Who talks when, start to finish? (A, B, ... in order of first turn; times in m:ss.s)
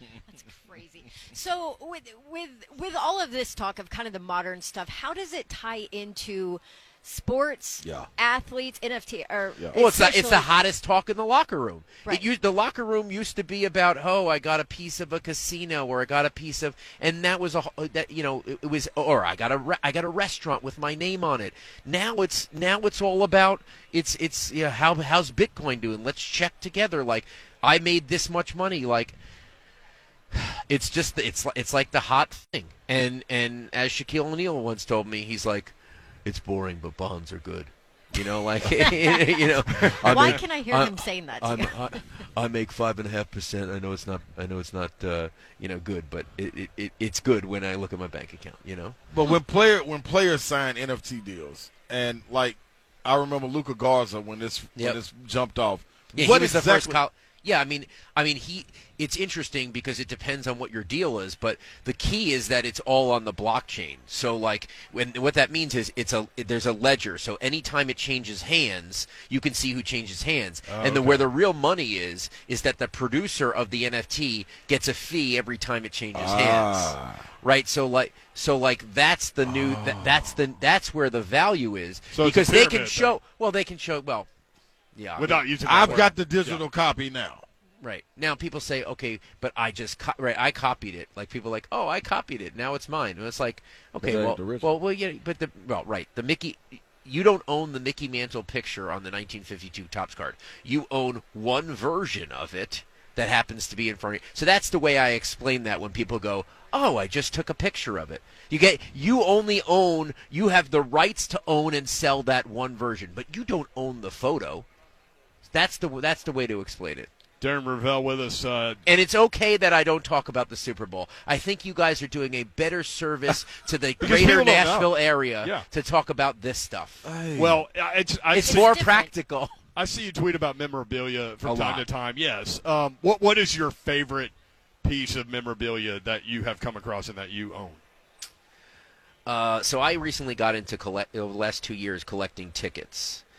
0:00.3-0:10.6 A
0:07.8-0:08.1 B
0:09.7-0:29.2 C
0:12.0-0:12.3 A
0:30.3-0:49.0 C
0:38.7-0:39.4 A
0:40.0-0:42.0 A
0:49.1-0:57.0 B
0:54.8-0:55.0 C
0:56.1-1:24.3 C
1:10.7-1:11.2 D
1:16.1-1:17.3 B
1:19.4-1:20.3 B
1:22.1-1:23.2 D
1:24.9-1:25.5 C
1:25.2-1:26.6 D
1:25.6-1:27.4 B
1:27.8-1:54.6 C
1:34.0-1:34.7 B
1:55.4-1:57.1 C
1:57.4-1:58.8 D
1:58.8-2:07.1 C
2:04.0-2:05.7 D
2:07.0-2:07.6 B
2:07.3-2:08.8 D
2:08.3-2:09.6 C
2:08.4-2:09.1 A
2:09.7-2:17.8 D
2:11.4-2:11.8 C
2:19.2-2:23.2 C